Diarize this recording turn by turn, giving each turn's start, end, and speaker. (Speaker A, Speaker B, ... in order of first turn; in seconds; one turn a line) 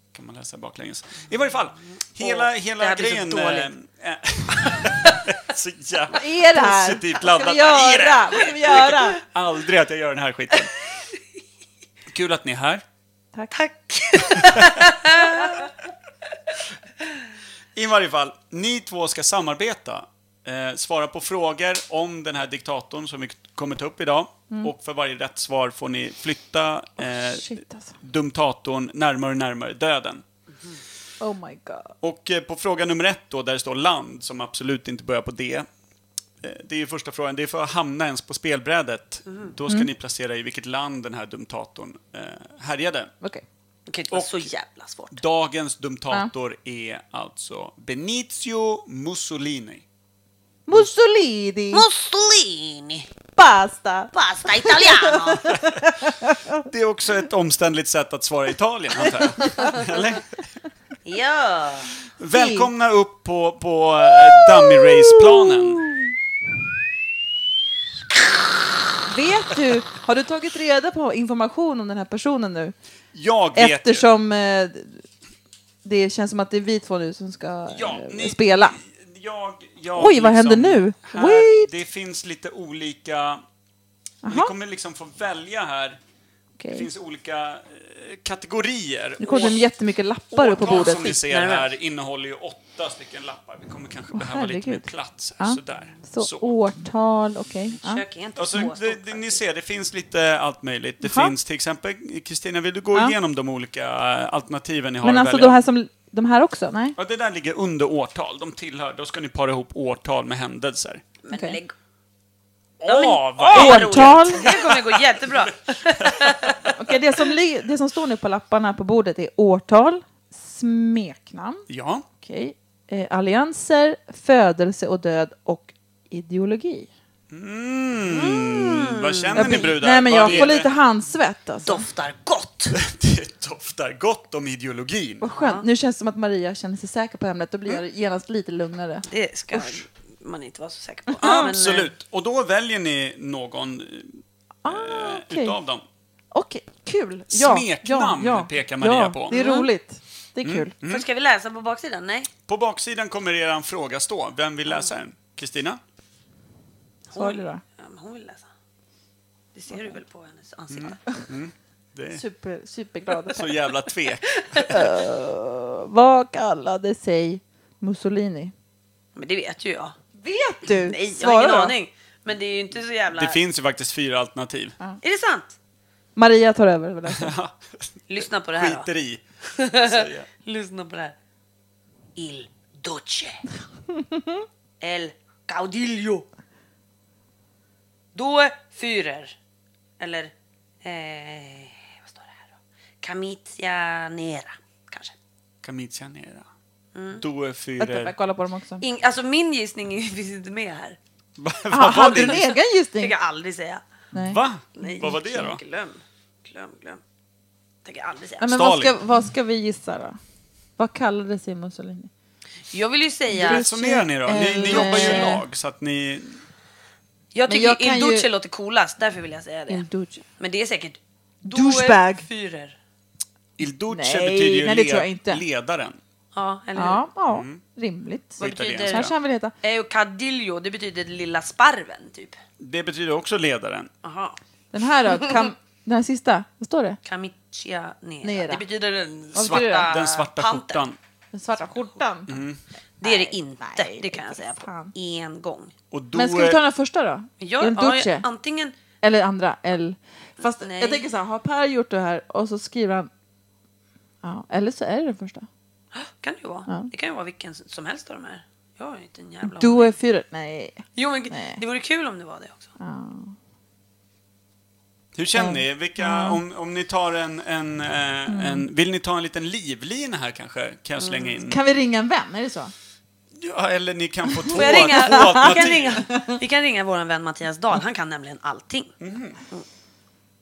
Speaker A: 0.1-10.7
Speaker B: 1.9-3.7
Speaker B: 4.6-5.2
Speaker C: 6.1-9.2
Speaker A: 12.1-12.8
Speaker B: 13.5-15.7
Speaker A: 17.8-30.2
Speaker C: 27.0-27.9
Speaker C: 31.2-31.9
Speaker A: 32.0-35.7
Speaker A: 36.4-43.1
Speaker B: 39.3-39.5
Speaker B: 43.9-45.2
Speaker A: 44.1-44.5
Speaker A: 45.1-49.9
Speaker C: 50.7-51.9
Speaker B: 51.7-53.1
Speaker C: 53.4-56.7
Speaker B: 54.1-55.5
Speaker A: 56.7-60.4
Speaker C: 59.0-59.7
Speaker B: 61.0-61.9
Speaker A: 62.2-65.9
Speaker C: 62.3-62.7
Speaker C: 64.2-66.1
Speaker C: 69.1-72.8
Speaker A: 73.1-74.1
Speaker C: 73.5-75.0
Speaker C: 75.8-78.8
Speaker A: 77.7-83.4
Speaker C: 79.9-81.7
Speaker C: 84.2-84.5
Speaker A: 84.3-86.0
Speaker C: 86.6-86.9
Speaker A: 86.7-89.6
Speaker C: 89.2-91.2
Speaker A: 90.3-96.5
Speaker B: 90.8-91.7
Speaker C: 94.1-98.0
Speaker B: 97.8-99.4
Speaker A: 98.4-105.6
Speaker C: 101.0-101.3
Speaker C: 105.0-107.0
Speaker A: 107.0-111.0
Speaker B: 111.2-111.7
Speaker C: 111.3-111.6
Speaker A: 112.8-116.8
Speaker B: 112.8-116.6
Speaker C: 113.5-114.5
Speaker C: 116.8-121.6
Speaker A: 121.7-122.0
Speaker C: 122.2-126.9
Speaker A: 127.3-130.7
Speaker B: 128.1-130.5
Speaker C: 129.4-131.9
Speaker B: 131.6-132.8
Speaker A: 132.8-135.2
Speaker C: 135.2-139.1
Speaker B: 135.3-135.7
Speaker B: 139.1-141.9
Speaker C: 141.1-141.5
Speaker A: 141.2-145.8
Speaker C: 144.6-145.6
Speaker C: 146.3-150.7
Speaker A: 147.3-149.3
Speaker B: 149.3-149.7
Speaker A: 150.4-151.1
Speaker B: 150.8-152.3
Speaker A: 152.5-155.8
Speaker B: 157.1-158.5
Speaker C: 157.1-157.6
Speaker B: 159.5-161.0
Speaker A: 160.7-162.2
Speaker C: 162.1-163.7
Speaker A: 163.3-164.8
Speaker B: 164.4-164.7
Speaker C: 164.7-168.5
Speaker B: 169.2-170.0
Speaker C: 170.2-171.8
Speaker B: 170.7-173.4
Speaker A: 173.1-174.8
Speaker B: 175.0-175.6
Speaker C: 176.2-177.3
Speaker A: 177.1-177.6
Speaker B: 178.1-178.9
Speaker A: 178.2-179.2
Speaker B: 179.5-181.2
Speaker A: 179.8-180.3
Speaker B: 182.2-183.4
Speaker C: 184.0-184.4
Speaker B: 184.8-186.3
Speaker B: 188.2-189.4
Speaker B: 190.0-195.2
Speaker A: 195.6-196.5
Speaker B: 196.9-197.2
Speaker A: 197.2-198.1
Speaker C: 197.8-198.8
Speaker B: 198.8-201.0
Speaker A: 201.4-202.5
Speaker C: 201.7-203.2
Speaker B: 203.0-203.8
Speaker C: 204.1-204.4
Speaker A: 204.2-205.6
Speaker B: 204.8-207.0
Speaker B: 207.8-208.5
Speaker C: 208.4-210.2
Speaker A: 208.5-208.9
Speaker C: 210.8-212.1
Speaker B: 212.7-213.7
Speaker C: 213.3-215.4
Speaker A: 213.4-216.4
Speaker B: 214.7-215.4
Speaker B: 217.3-219.8
Speaker C: 217.5-218.3
Speaker C: 219.7-220.2
Speaker B: 220.4-222.8
Speaker C: 221.4-222.3
Speaker A: 223.6-226.0
Speaker C: 223.9-225.4
Speaker B: 226.3-227.0
Speaker C: 226.8-229.5
Speaker A: 227.3-227.6
Speaker B: 228.4-229.1
Speaker A: 228.4-229.1
Speaker B: 229.6-232.4
Speaker A: 232.6-233.9
Speaker B: 234.0-234.4
Speaker C: 234.7-237.0
Speaker B: 235.1-235.4
Speaker B: 237.1-240.8
Speaker C: 238.2-238.7
Speaker C: 239.3-239.9
Speaker A: 239.4-241.0
Speaker C: 241.3-242.4
Speaker A: 242.3-242.6
Speaker B: 243.0-245.7
Speaker C: 243.0-244.9
Speaker A: 245.9-246.6
Speaker C: 246.1-248.3
Speaker B: 247.4-248.8
Speaker C: 249.0-253.1
Speaker B: 250.4-251.1
Speaker C: 254.2-255.5
Speaker B: 255.9-259.9
Speaker C: 259.4-261.6
Speaker B: 260.9-262.7
Speaker C: 262.8-263.4
Speaker A: 265.1-271.6
Speaker C: 265.3-266.4
Speaker C: 268.3-268.7
Speaker B: 271.0-271.4
Speaker C: 271.4-272.7
Speaker A: 273.4-276.1
Speaker C: 274.3-276.4
Speaker B: 274.5-278.9
Speaker A: 279.0-279.4